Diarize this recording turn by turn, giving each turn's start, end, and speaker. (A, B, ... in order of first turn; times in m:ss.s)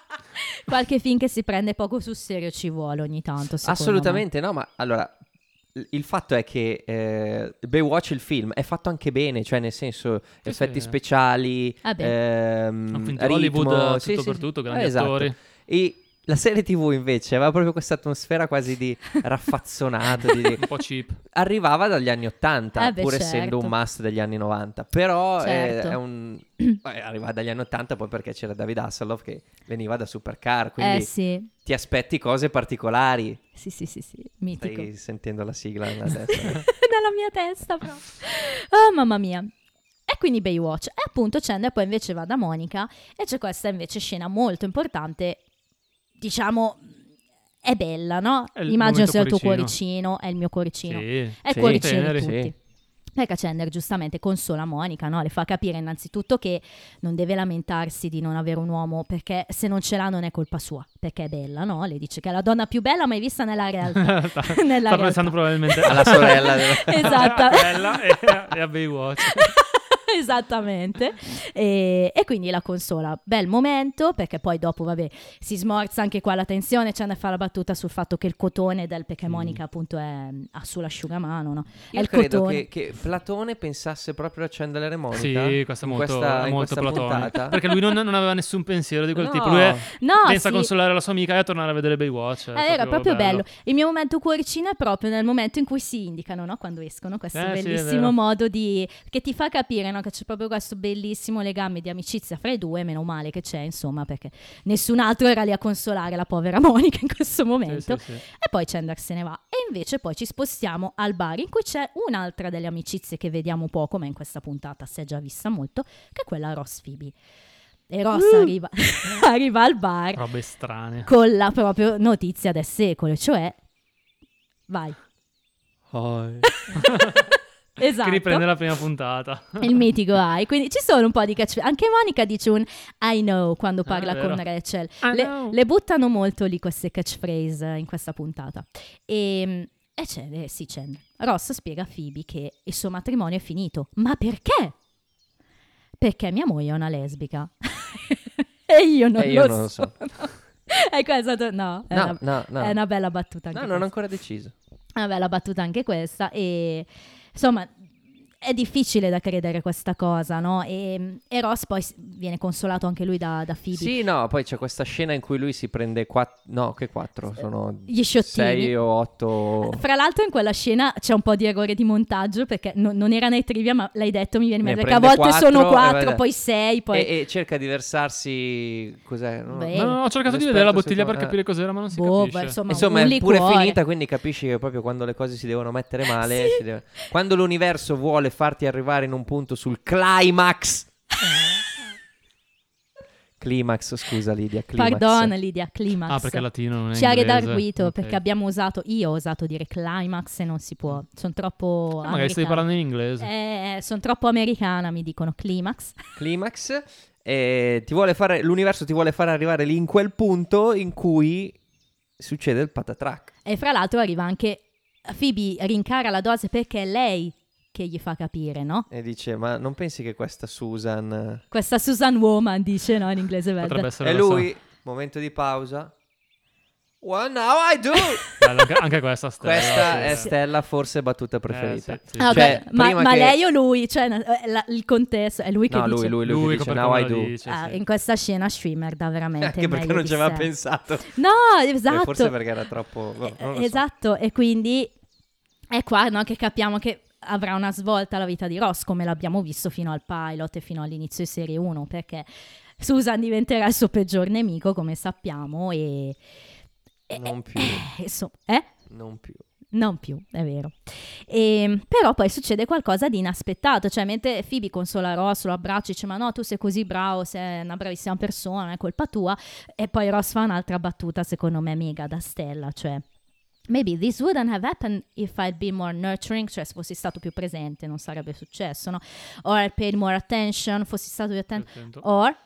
0:00.4-0:04.2 A
0:03.6-0:05.2 B
0:05.7-0:20.7 B
0:10.5-0:10.9 C
0:11.8-0:12.2 A
0:12.9-0:15.4 C
0:20.6-0:21.2 C
0:21.2-0:31.1 B
0:22.8-0:23.7 A
0:25.4-0:26.0 A
0:30.8-0:31.5 A
0:31.6-0:33.4 B
0:33.6-0:34.9 A
0:34.6-0:36.7 B
0:36.1-0:39.5 A
0:40.1-0:45.4 A
0:46.2-0:46.9 A
0:47.6-0:52.5 A
0:48.6-0:49.7 C
0:50.9-0:52.4 C
0:51.5-0:52.5 B
0:53.2-1:08.5 A
1:04.0-1:09.6 C
1:05.8-1:07.6 B
1:09.2-1:22.6 A
1:19.3-1:19.6 C
1:21.9-1:27.6 B
1:25.1-1:33.5 C
1:29.2-1:29.8 B
1:29.9-1:30.7 A
1:32.6-1:57.2 A
1:37.3-1:38.2 C
1:47.7-1:48.2 C
1:57.9-2:00.2 A
2:00.2-2:01.1 C
2:01.1-2:03.6 A
2:04.7-2:05.0 A
2:05.9-2:06.5 B
2:06.4-2:07.2 A
2:06.8-2:07.3 C
2:07.8-2:08.5 A
2:07.9-2:09.7 C
2:09.6-2:24.8 A
2:13.9-2:14.4 C
2:15.0-2:15.6 C
2:26.0-2:33.9 A
2:29.2-2:30.0 B
2:31.9-2:32.8 B
2:33.5-2:34.5 B
2:35.0-2:37.7 A
2:38.4-2:43.9 A
2:43.7-2:49.8 B
2:47.9-2:48.8 A
2:49.6-2:57.1 A
2:54.6-2:56.2 B
2:56.9-3:01.4 B
2:59.5-3:00.0 A
2:59.7-3:02.6 C
3:01.9-3:03.8 A
3:02.7-3:10.9 B
3:06.2-3:06.6 A
3:13.4-3:15.3 B
3:14.8-3:22.7 A
3:16.1-3:18.2 C
3:22.0-3:23.3 C
3:23.2-3:26.0 A
3:26.2-3:31.6 B
3:32.2-3:33.3 B
3:33.5-3:38.9 A
3:38.9-3:41.4 B
3:41.5-3:43.9 A
3:43.6-3:44.5 C
3:44.0-3:45.9 B
3:47.0-3:48.3 B
3:48.4-3:50.3 C
3:49.4-3:53.4 B
3:49.8-3:50.3 A
3:51.5-3:52.4 C
3:52.2-3:56.2 A
3:55.7-3:57.3 B
3:56.2-3:57.8 C
3:57.5-4:00.5 A
3:59.4-4:01.1 B
4:01.1-4:02.4 A
4:01.9-4:03.8 B
4:03.3-4:04.9 A
4:05.7-4:12.3 A
4:12.8-4:16.2 A
4:17.1-4:18.7 A
4:17.1-4:17.9 B
4:18.9-4:19.4 B
4:19.7-4:33.0 A
4:33.7-4:42.4 A
4:41.6-4:42.0 C